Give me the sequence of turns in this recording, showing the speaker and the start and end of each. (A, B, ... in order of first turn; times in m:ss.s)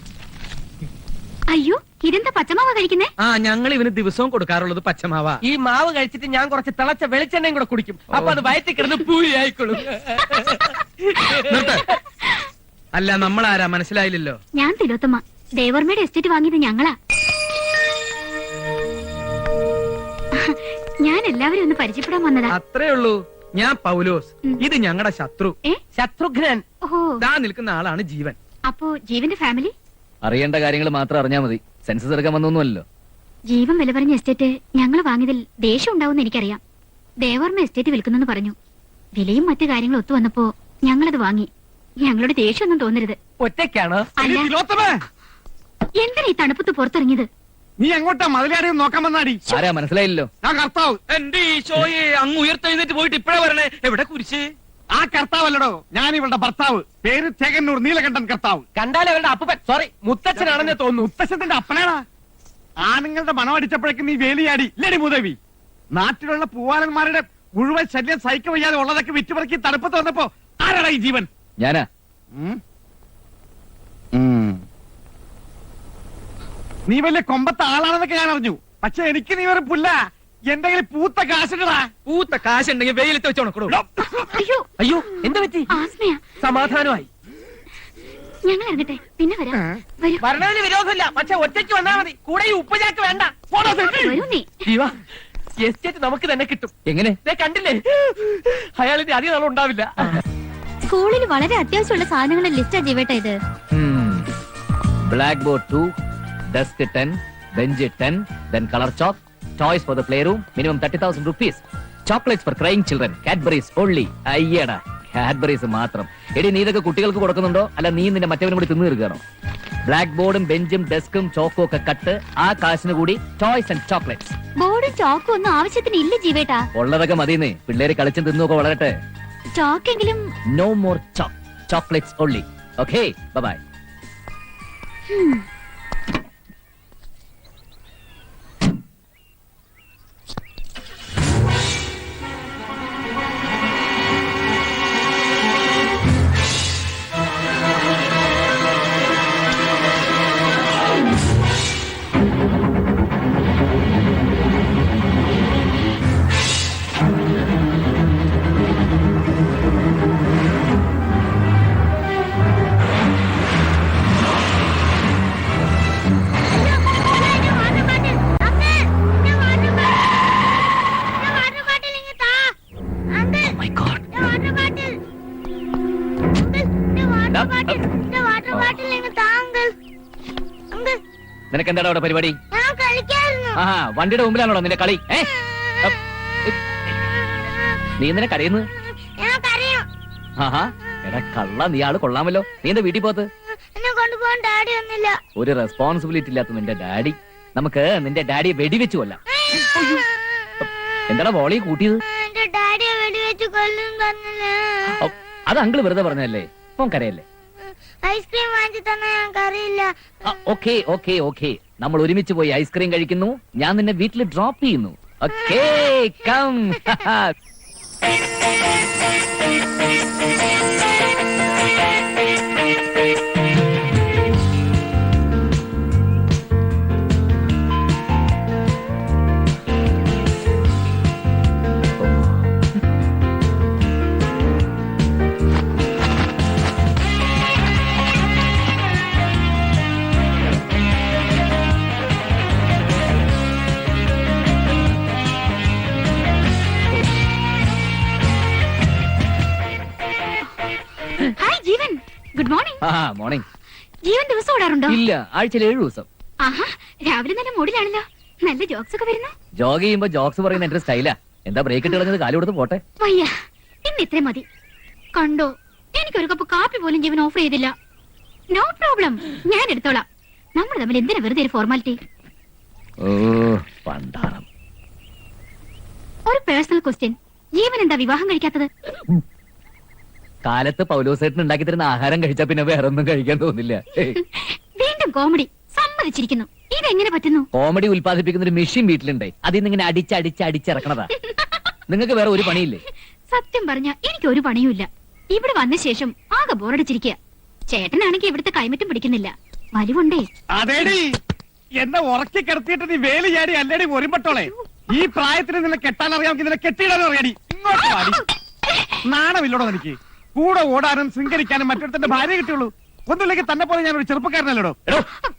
0:01.5-0:03.1 A
0:03.2-0:05.4 B
0:05.4-0:09.7 C
0:08.1-0:08.4 B
0:08.9-0:10.6 B
0:11.3-0:11.9 B
0:13.0-0:14.4 B
0:14.5-0:17.0 A
0:20.3-0:22.5 A
0:22.5-0:25.5 B
0:25.9-0:26.6 C
0:26.8-0:27.2 A
0:27.2-0:28.4 B
0:28.7-0:29.7 A
0:30.2-0:32.8 D
0:33.5-0:36.6 A
0:37.2-0:38.5 A
0:39.2-0:41.5 A
0:42.0-0:43.2 A
0:43.4-0:44.1 C
0:44.2-0:44.5 A
0:44.2-0:44.9 E
0:46.0-0:47.3 A
0:47.8-0:49.4 E
0:49.5-0:50.3 D
0:50.4-0:51.0 E
0:51.1-0:54.5 B
0:54.9-0:58.6 E
0:58.8-1:01.1 C
1:00.4-1:02.0 E
1:02.8-1:05.4 E
1:06.0-1:11.3 E
1:11.6-1:11.9 D
1:14.1-1:14.6 E
1:16.9-1:19.9 E
1:20.5-1:21.9 E
1:22.1-1:23.8 B
1:24.3-1:24.6 A
1:24.8-1:25.7 C
1:25.7-1:26.2 A
1:26.4-1:27.1 C
1:28.4-1:30.2 A
1:30.2-1:33.4 C
1:33.5-1:34.2 E
1:33.6-1:34.5 A
1:34.6-1:35.0 C
1:35.6-1:36.7 C
1:36.9-1:37.2 D
1:37.2-1:40.2 C
1:40.8-1:43.4 A
1:43.7-1:44.3 D
1:45.1-1:45.9 D
1:46.5-1:59.2 D
1:59.8-2:04.4 D
2:04.6-2:06.6 A
2:06.7-2:08.9 D
2:09.6-2:10.3 A
2:10.5-2:13.6 D
2:15.1-2:15.4 A
2:46.6-2:50.2 F
2:51.2-2:52.5 F
2:53.1-2:53.5 F
2:53.4-2:54.0 D
2:54.1-2:54.9 F
2:56.3-2:59.7 F
2:57.3-2:57.8 D
2:58.5-2:58.8 D
3:00.7-3:01.0 F
3:01.5-3:02.4 D
3:02.5-3:03.6 F
3:03.6-3:05.3 D
3:06.4-3:06.8 D
3:08.0-3:08.7 D
3:09.2-3:09.8 F
3:10.4-3:13.3 D
3:13.8-3:15.2 F
3:15.4-3:19.2 D
3:19.5-3:20.1 F
3:21.1-3:22.0 D
3:22.2-3:24.9 F
3:25.0-3:27.2 D
3:28.0-3:29.9 F
3:30.2-3:37.3 D
3:52.0-3:52.5 D
4:11.4-4:12.8 A
4:12.8-4:13.4 D
4:14.0-4:15.0 A
4:14.9-4:16.1 D
4:16.4-4:19.3 A
4:19.6-4:22.8 D
4:23.0-4:23.3 A
4:23.8-4:24.4 A
4:25.2-4:27.7 A
4:28.5-4:30.0 A
4:30.6-4:32.0 A
4:33.0-4:34.4 D
4:36.3-4:38.7 A
4:40.4-4:44.2 D
4:44.1-4:47.5 A
4:47.5-4:51.1 D
4:51.3-4:51.6 A
4:51.9-4:52.8 D
4:53.3-5:00.2 A
5:00.5-5:01.0 E
5:01.8-5:08.2 E
5:08.7-5:08.9 A
5:09.1-5:14.8 E